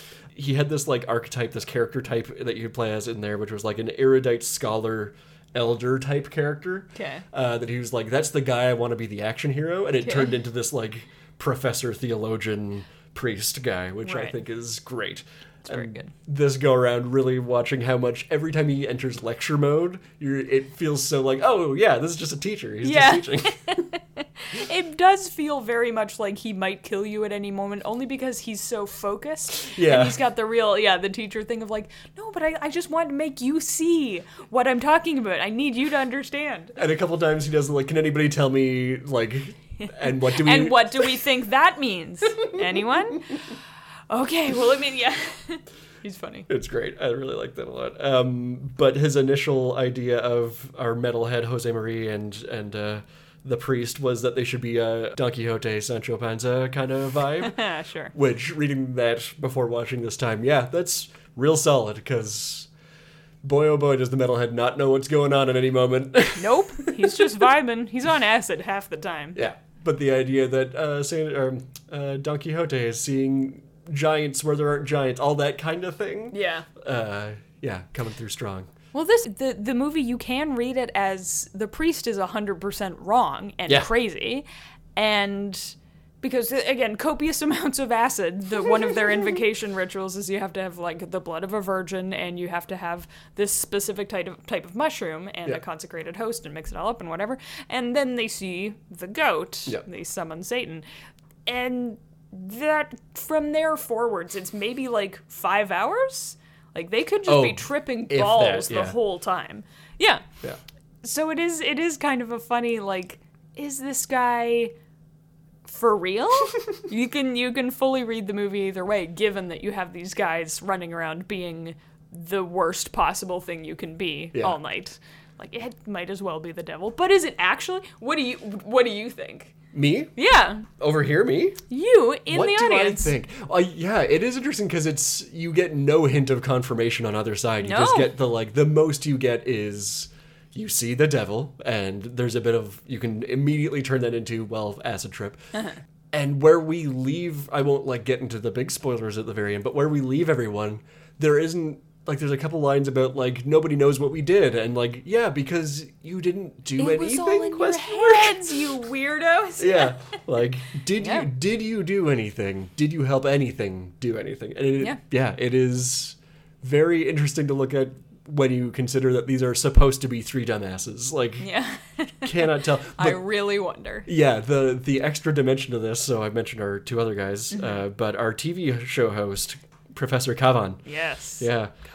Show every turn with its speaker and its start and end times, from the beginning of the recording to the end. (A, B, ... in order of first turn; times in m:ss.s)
0:00.3-0:23.8 A
0:06.9-0:07.2 B
0:14.0-0:14.4 B
0:15.6-0:16.1 B
0:22.8-0:36.8 B
0:29.6-0:30.2 A
0:36.8-0:41.2 A
0:40.0-0:43.3 B
0:44.1-0:46.5 B
0:46.5-0:57.6 A
0:57.4-0:58.1 B
0:58.1-1:02.7 A
1:03.4-1:07.2 A
1:06.4-1:09.4 B
1:09.3-1:18.7 A
1:16.3-1:16.6 B
1:18.9-1:24.4 B
1:25.0-1:40.8 B
1:41.4-1:50.2 B
1:47.2-1:49.0 A
1:51.0-1:54.7 B
1:55.6-2:09.5 B
2:09.7-2:10.1 A
2:10.2-2:10.7 B
2:10.7-2:11.6 A
2:11.7-2:13.1 B
2:12.3-2:25.4 A
2:17.6-2:18.1 B
2:26.1-2:38.4 A
2:36.8-2:40.2 B
2:39.6-2:51.5 A
2:41.0-2:41.3 B
2:51.4-2:54.1 B
2:52.2-2:53.2 A
2:54.0-3:00.8 A
2:57.5-2:57.8 B
3:00.8-3:01.5 B
3:01.4-3:01.7 A